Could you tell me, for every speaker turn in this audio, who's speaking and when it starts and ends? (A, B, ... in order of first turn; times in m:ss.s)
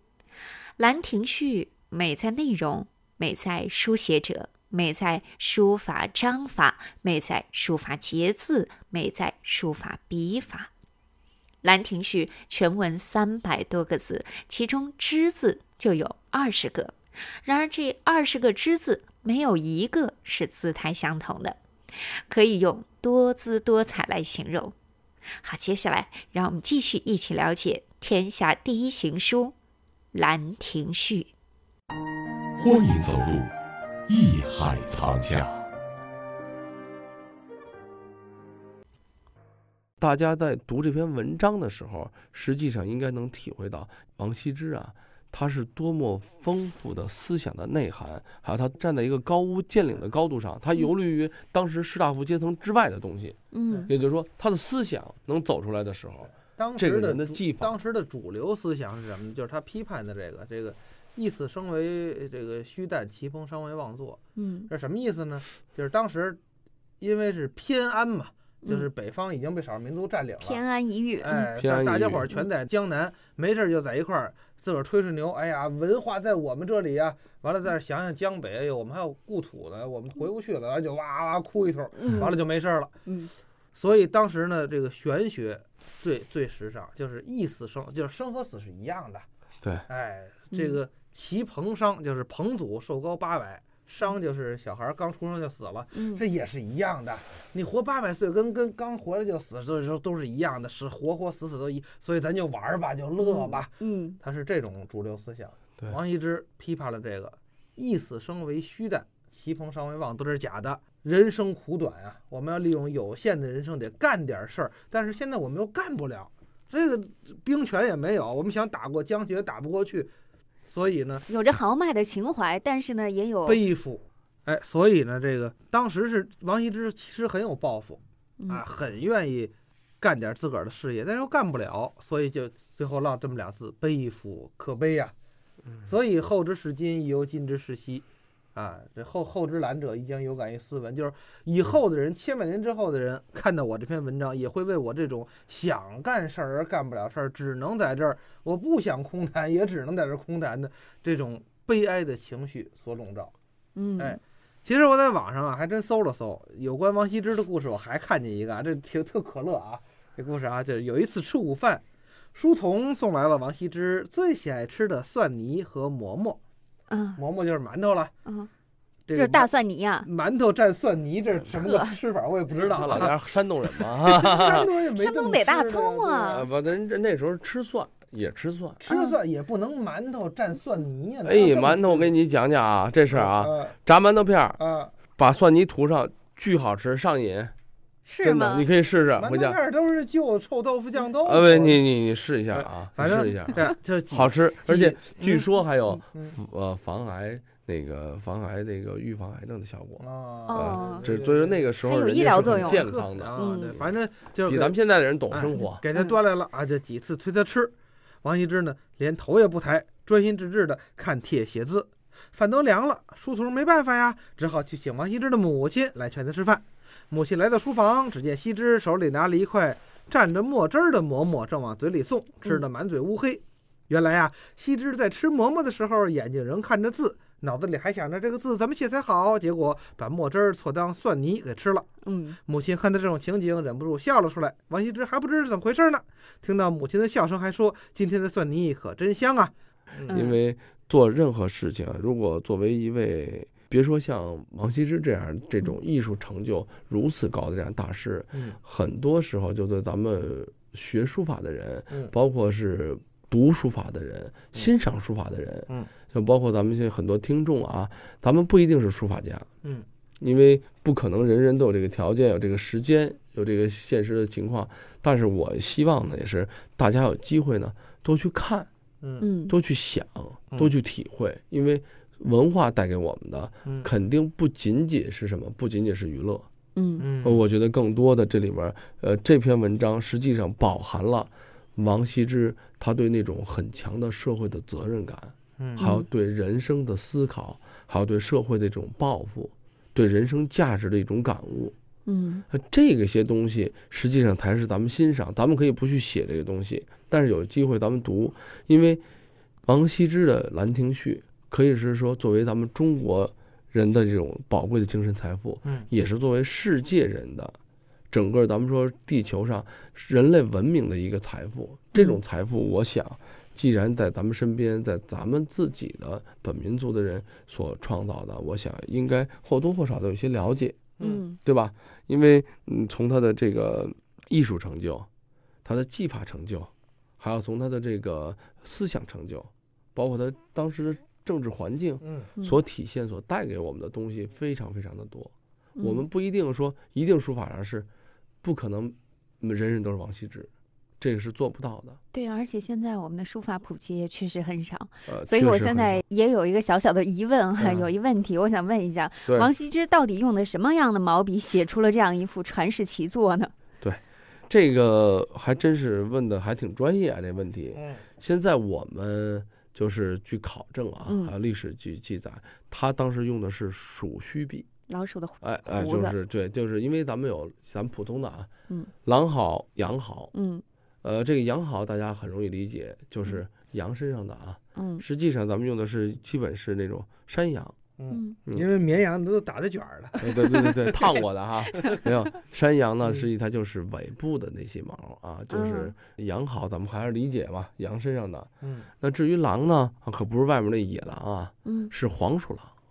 0:00.8-0:10.7 A
0:11.6-0:21.6 A
0:22.3-0:24.8 A
0:25.4-0:29.6 A
0:30.1-0:31.3 A
0:32.6-0:33.5 B
0:34.1-0:35.6 B
0:40.0-0:57.8 C
0:53.5-0:53.9 D
0:56.6-1:06.4 E
1:04.4-1:04.7 D
1:07.0-1:10.6 E
1:10.4-1:11.5 D
1:11.2-1:22.9 E
1:11.6-1:12.3 C
1:22.0-1:22.4 D
1:23.1-1:23.3 D
1:23.8-1:29.3 E
1:29.9-1:43.7 E
1:30.5-1:30.8 D
1:35.9-1:36.2 D
1:43.2-1:44.2 D
1:44.2-2:00.1 E
2:00.7-2:01.3 E
2:01.3-2:03.6 D
2:03.5-2:15.1 E
2:08.4-2:08.6 D
2:15.8-2:33.3 E
2:33.8-2:34.2 D
2:34.0-2:41.8 E
2:42.3-2:46.4 E
2:46.9-2:47.2 D
2:47.2-2:48.1 E
2:49.1-2:49.5 E
2:49.1-2:50.1 D
2:50.0-2:53.2 E
2:51.6-2:52.0 D
2:52.7-2:54.7 C
2:54.0-2:56.4 E
2:55.0-2:56.5 D
2:56.3-2:58.8 C
2:58.8-3:02.1 E
2:58.9-2:59.2 D
3:01.2-3:04.6 C
3:03.1-3:03.8 E
3:04.6-3:04.9 E
3:05.2-3:07.5 C
3:08.1-3:08.7 D
3:08.2-3:09.6 C
3:09.2-3:11.8 E
3:11.2-3:23.9 C
3:12.5-3:15.4 E
3:16.1-3:16.4 E
3:20.0-3:21.7 E
3:20.5-3:21.1 D
3:21.8-3:23.8 D
3:22.3-3:24.8 E
3:24.4-3:25.8 C
3:25.3-3:51.9 E
3:52.0-3:52.4 D
3:52.5-4:00.3 E
4:00.1-4:19.5 C
4:00.1-4:00.4 D
4:08.3-4:08.6 E
4:20.2-4:28.7 C
4:29.0-4:29.3 E
4:29.2-4:29.6 D
4:29.5-4:36.5 C
4:36.8-4:37.1 D
4:37.0-4:37.4 E
4:37.2-4:51.8 C
4:45.6-4:45.9 E
4:45.8-4:46.1 D
4:52.1-4:52.4 D
4:52.5-4:59.0 C
4:59.6-5:07.6 C
5:08.1-5:20.9 C
5:21.0-5:21.4 D
5:21.4-5:25.1 C
5:25.6-5:37.9 C
5:32.0-5:32.3 E
5:38.4-5:42.0 C
5:42.1-5:53.5 D
5:45.1-5:46.0 C
5:47.6-5:47.9 C
5:53.8-6:04.7 C
5:57.8-5:58.0 E
6:01.1-6:01.3 D
6:04.9-6:06.2 D
6:05.4-6:08.5 C
6:09.0-6:10.3 C
6:10.3-6:10.6 D
6:11.0-6:17.8 C
6:14.8-6:15.0 D
6:18.0-6:20.3 E
6:18.1-6:18.4 D
6:20.2-6:28.5 C
6:25.5-6:25.9 D
6:28.6-6:28.9 E
6:29.0-6:32.7 C
6:31.6-6:31.9 D